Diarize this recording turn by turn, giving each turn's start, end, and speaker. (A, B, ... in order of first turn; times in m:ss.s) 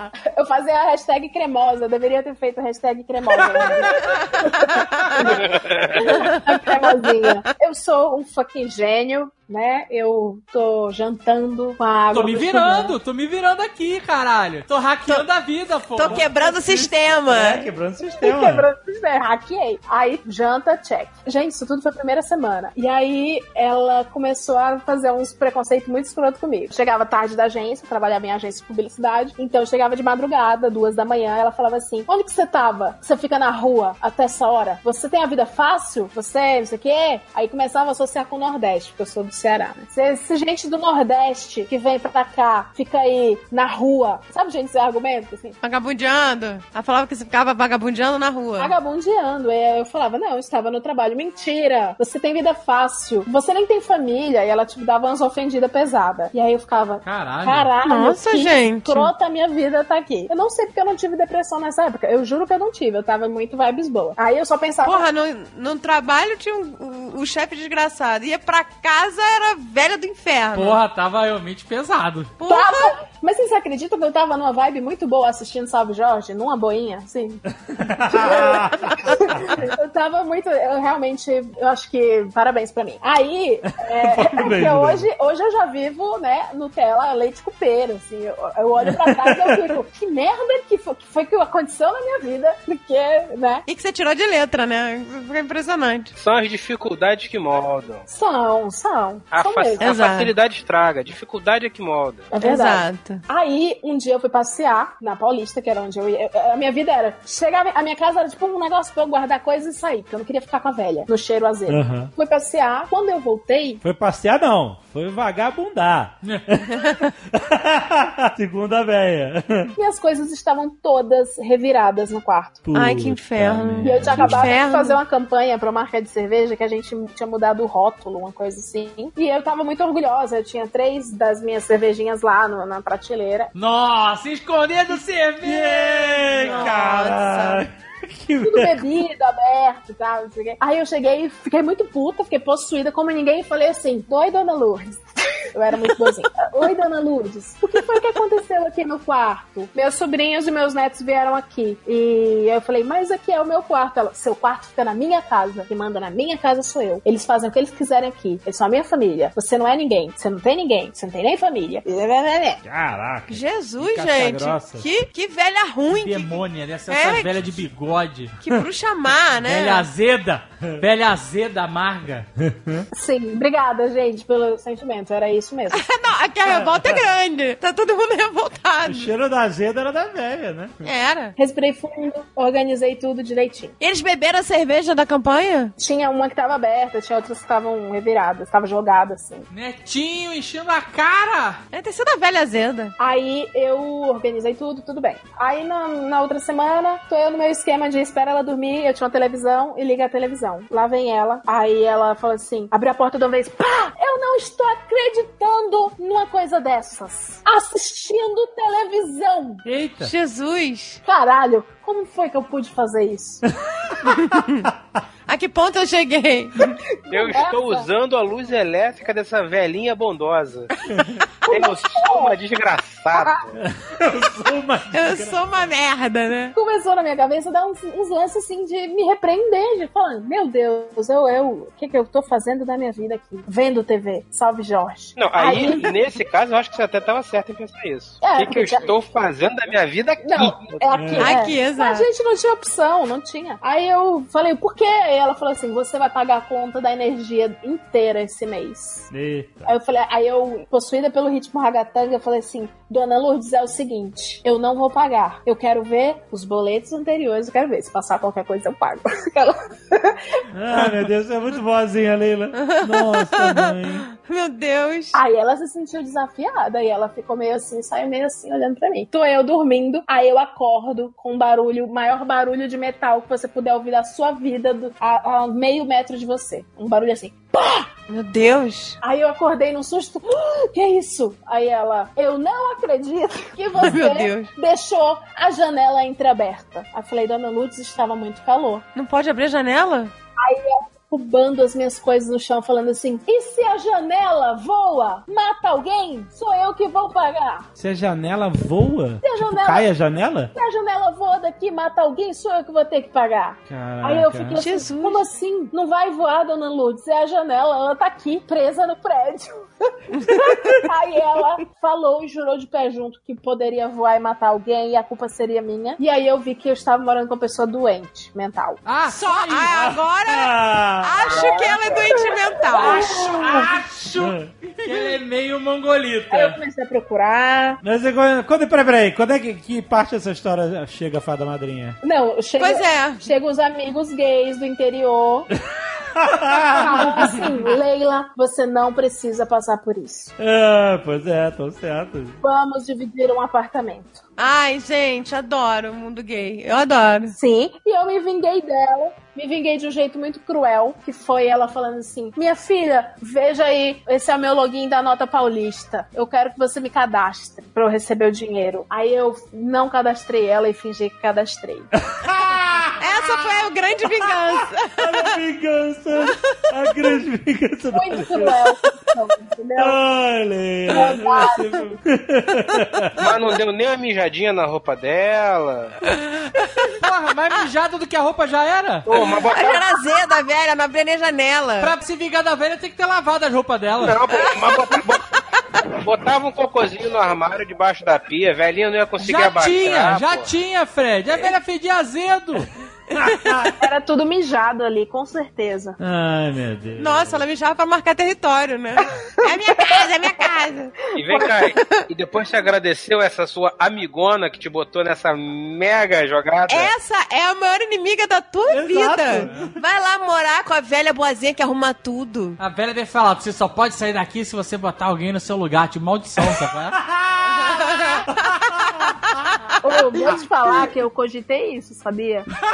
0:00.4-0:13.0 A
0:04.7-0:05.4 B
0:05.2-0:06.1 C
0:06.0-0:07.4 B
0:12.1-0:16.9 D
0:15.9-0:17.6 B
0:17.3-0:18.7 E
0:18.2-0:45.6 A
0:45.6-0:48.8 B
0:48.6-1:05.1 A
0:57.0-0:57.7 D
0:57.8-0:59.1 B
1:04.8-1:10.8 B
1:10.5-1:12.4 D
1:12.4-1:12.9 B
1:12.5-1:17.4 A
1:17.8-1:19.4 E
1:18.1-1:33.6 A
1:23.8-1:25.1 E
1:28.9-1:29.8 E
1:33.7-1:36.1 B
1:36.2-1:38.0 C
1:38.1-1:39.9 A
1:39.3-1:42.3 C
1:39.8-1:40.3 B
1:42.3-1:53.8 A
1:42.4-1:43.2 B
1:51.7-1:52.1 E
1:53.8-1:56.7 E
1:57.3-1:59.7 E
1:59.8-2:02.7 A
2:02.6-2:04.5 E
2:02.8-2:05.0 B
2:03.8-2:13.5 A
2:13.5-2:16.9 D
2:15.4-2:18.9 E
2:16.4-2:17.7 B
2:18.4-2:25.0 A
2:25.5-2:42.6 A
2:42.6-2:44.9 E
2:43.3-2:47.6 B
2:45.9-2:48.4 D
2:48.4-2:49.9 B
2:49.5-2:52.3 D
2:52.4-2:52.9 E
2:52.9-2:55.8 A
2:55.7-2:59.1 B
2:56.5-2:57.0 E
2:58.9-3:00.8 E
3:00.8-3:01.4 B
3:01.4-3:03.8 A
3:03.8-3:05.7 B
3:05.8-3:09.5 A
3:09.5-3:11.6 D
3:11.7-3:12.9 B
3:13.0-3:29.6 A
3:29.6-3:30.1 E
3:30.0-3:31.0 B
3:31.1-3:33.4 A
3:34.1-3:34.7 B
3:35.3-3:36.8 B
3:37.0-3:37.9 A
3:37.1-3:40.7 C
3:40.9-3:41.2 E
3:41.5-3:42.4 A
3:41.5-3:43.5 C
3:43.2-3:43.4 A
3:43.5-3:45.4 E
3:44.9-3:46.6 B
3:46.5-3:56.0 A
3:55.2-4:00.8 C
3:58.2-3:58.9 A
4:00.2-4:09.1 A
4:00.9-4:01.3 E
4:01.2-4:02.1 B
4:09.1-4:09.8 E
4:09.7-4:20.2 A
4:20.5-4:24.1 E
4:22.6-4:25.2 B
4:25.1-4:37.9 A
4:38.1-4:39.0 B
4:39.0-4:48.8 A
4:43.8-4:44.5 B
4:49.0-4:50.1 B
4:50.4-4:57.7 A
4:57.8-5:00.5 E
4:59.2-4:59.9 A
5:00.6-5:09.6 A
5:03.7-5:04.6 E
5:04.6-5:05.2 B
5:10.2-5:10.7 B
5:10.3-5:18.8 A
5:18.8-5:20.0 D
5:19.1-5:23.1 B
5:20.3-5:21.1 E
5:21.3-5:23.6 A
5:22.8-5:26.6 D
5:24.2-5:24.5 E
5:26.3-5:27.8 A
5:27.8-5:32.0 E
5:32.0-5:35.5 A
5:32.6-5:33.2 B
5:36.2-5:37.4 E
5:36.7-5:40.3 A
5:40.4-5:42.4 E
5:42.4-5:44.2 A
5:44.4-5:47.4 B
5:47.3-6:01.9 A
6:02.1-6:03.0 E
6:03.0-6:05.4 B
6:05.0-6:08.6 E
6:07.9-6:10.0 A
6:09.8-6:13.2 E
6:10.9-6:11.7 A
6:13.2-6:16.0 C
6:16.9-6:19.1 D
6:19.1-6:19.8 C
6:19.1-6:21.9 B
6:21.8-6:24.2 D
6:24.0-6:25.2 C
6:25.8-6:30.5 C
6:29.2-6:32.7 D
6:33.2-6:33.7 E
6:33.8-6:36.0 A
6:36.0-6:37.4 E
6:37.0-6:41.0 B
6:39.4-6:40.1 A
6:41.1-6:41.6 A
6:41.2-6:46.9 C
6:46.7-6:52.6 B
6:48.7-6:49.7 E
6:52.6-6:57.0 D
6:57.1-6:57.7 E
6:57.6-6:58.5 B
6:59.8-7:02.5 A